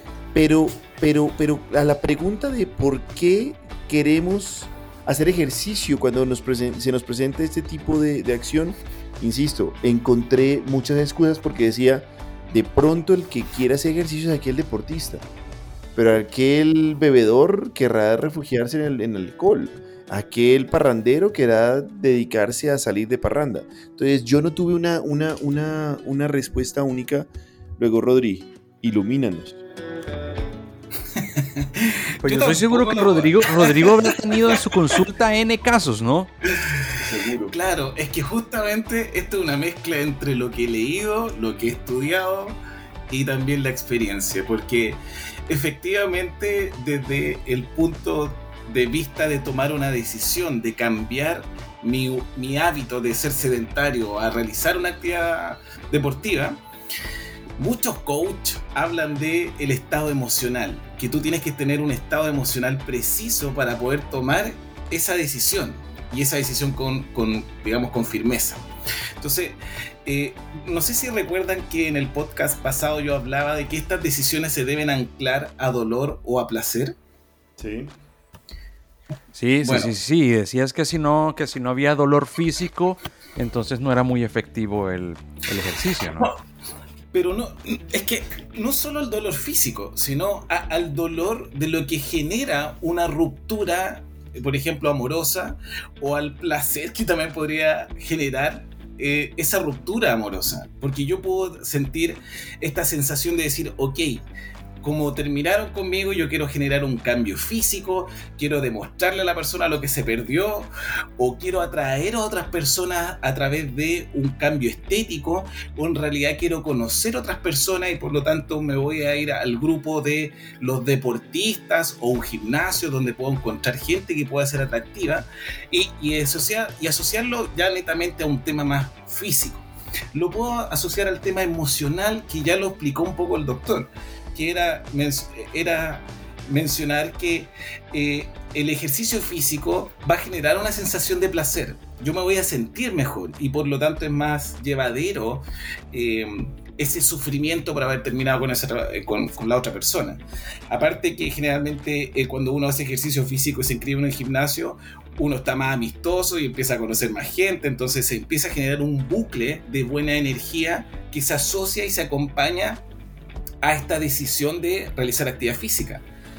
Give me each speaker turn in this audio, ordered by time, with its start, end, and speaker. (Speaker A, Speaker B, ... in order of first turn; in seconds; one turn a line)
Speaker A: 0.3-15.3
Speaker A: 15.9-29.6
Speaker B: 31.2-34.6
Speaker C: 32.2-36.3
Speaker B: 36.7-36.9
Speaker A: 37.0-37.5
Speaker B: 37.5-42.6
Speaker B: 43.1-56.6
Speaker B: 57.6-68.6
Speaker B: 69.2-77.0
Speaker A: 77.6-77.9
Speaker C: 79.3-86.3
Speaker B: 79.6-79.9
Speaker B: 87.1-104.3
Speaker B: 104.8-162.8
Speaker B: 163.6-166.0